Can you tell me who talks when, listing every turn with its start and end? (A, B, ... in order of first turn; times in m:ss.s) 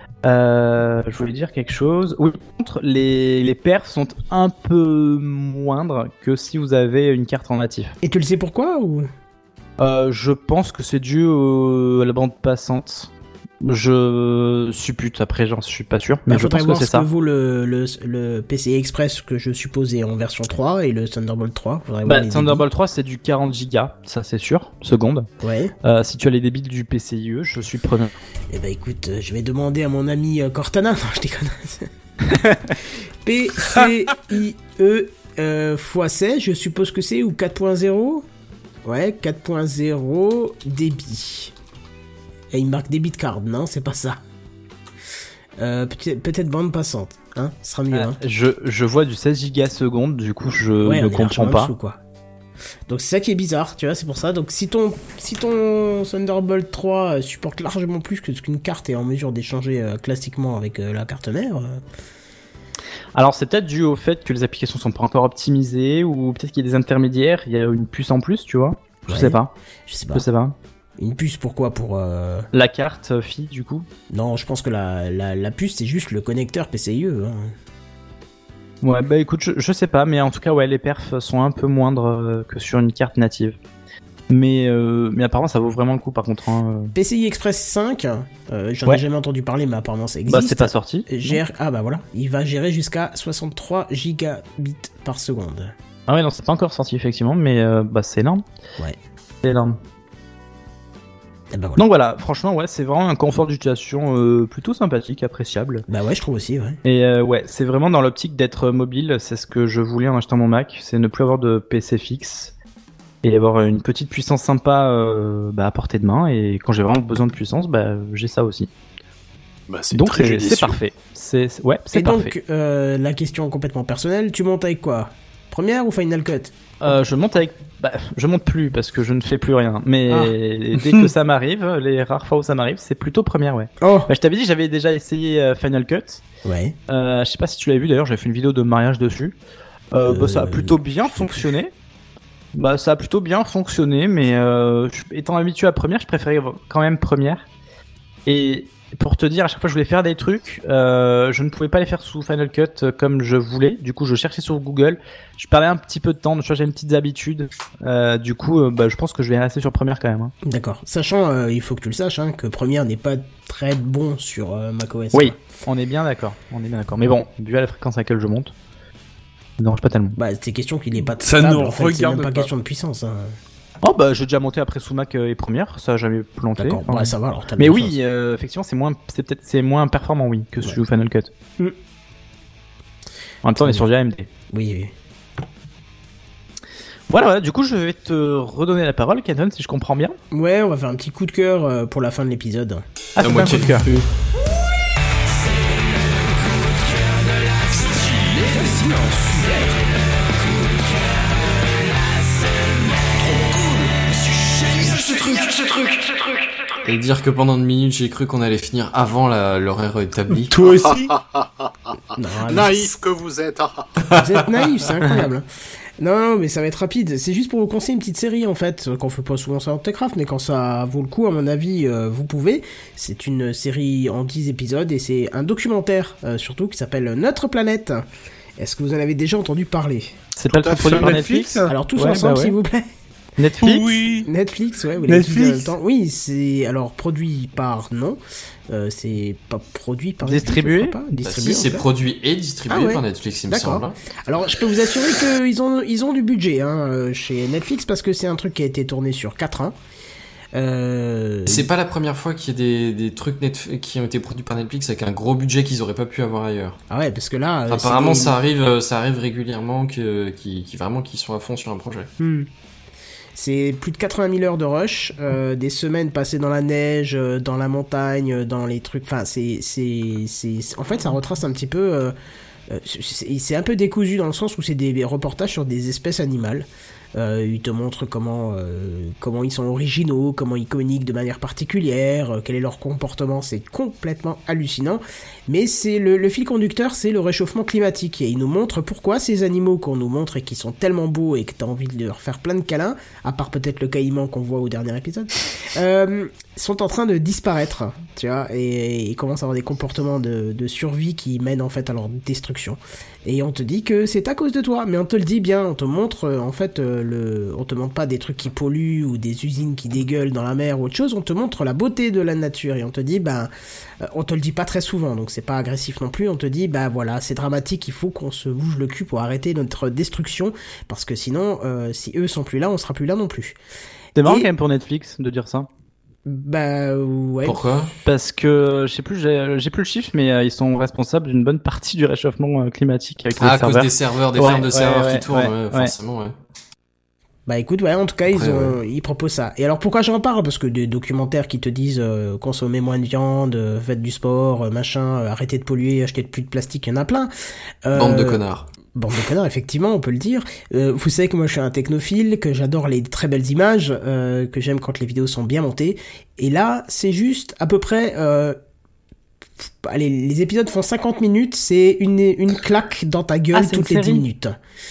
0:00.2-0:07.9 A
0:08.0-0:09.1 B
0:09.8-0:13.1 A
0:13.6-0:17.1 A
0:16.3-0:22.6 B
0:22.0-0:25.3 A
0:25.4-0:25.7 B
0:25.8-0:28.1 A
0:28.5-0:31.9 B
0:32.3-0:32.7 A
0:33.2-0:38.2 B
0:38.8-0:41.5 B
0:42.5-0:44.2 B
0:45.6-0:48.2 B
0:47.9-0:51.7 A
0:50.8-0:52.0 B
0:52.9-1:01.8 B
1:03.1-1:09.5 A
1:09.1-1:10.2 B
1:10.1-1:10.6 A
1:11.0-1:12.5 B
1:12.5-1:13.9 A
1:14.1-1:17.5 B
1:18.8-1:23.6 A
1:24.3-1:26.9 A
1:26.9-1:35.7 B
1:30.3-1:31.4 A
1:36.1-1:38.4 A
1:39.4-1:39.8 A
1:41.5-1:41.8 B
1:41.8-1:45.8 A
1:45.9-1:46.8 B
1:46.8-1:52.5 A
1:53.2-1:58.7 A
1:59.7-2:00.8 C
1:59.9-2:02.3 A
2:01.9-2:06.5 B
2:06.8-2:16.2 A
2:10.1-2:10.3 B
2:13.8-2:14.1 B
2:16.4-2:16.8 B
2:16.9-2:19.4 A
2:19.9-2:21.7 A
2:20.1-2:21.4 B
2:22.5-2:27.4 A
2:28.2-2:40.3 A
2:40.4-2:45.4 B
2:45.1-2:48.5 A
2:49.6-2:50.2 A
2:50.2-2:53.3 B
2:51.2-2:52.5 D
2:53.8-3:01.3 A
2:56.6-2:58.0 B
3:03.4-3:04.3 A
3:04.5-3:04.9 B
3:07.1-3:10.2 A
3:10.3-3:12.8 B
3:13.2-3:13.9 A
3:13.2-3:14.1 E
3:24.8-3:26.0 C
3:26.8-3:30.5 E
3:30.4-3:31.1 D
3:30.9-3:31.4 C
3:32.1-3:32.9 B
3:32.5-3:33.9 C
3:34.1-3:35.4 B
3:36.0-3:48.0 B
3:48.6-3:50.2 B
3:50.4-3:52.6 A
3:50.4-3:51.2 C
3:50.8-3:51.7 D
3:51.6-3:52.8 B
3:53.4-3:53.8 A
3:53.6-3:54.3 D
3:54.2-3:58.2 B
3:55.1-3:55.7 D
3:58.7-4:01.8 B
4:00.2-4:01.0 A
4:01.2-4:04.0 E
4:02.7-4:09.7 B
4:10.5-4:11.7 B
4:11.5-4:16.8 E
4:16.9-4:18.4 B
4:17.7-4:22.1 E
4:22.2-4:22.5 B
4:23.4-4:32.1 B
4:32.7-5:13.5 B
5:14.0-5:23.6 B
5:24.1-5:25.7 A
5:24.2-5:24.5 B
5:26.2-5:27.6 B
5:27.4-5:27.9 E
5:28.0-5:35.9 A
5:33.4-5:36.3 E
5:37.5-5:47.3 B
5:38.3-5:38.8 E
5:47.8-5:48.4 B
5:47.9-5:48.7 E
5:48.9-5:58.6 B
5:59.6-6:04.6 B
6:03.5-6:04.2 A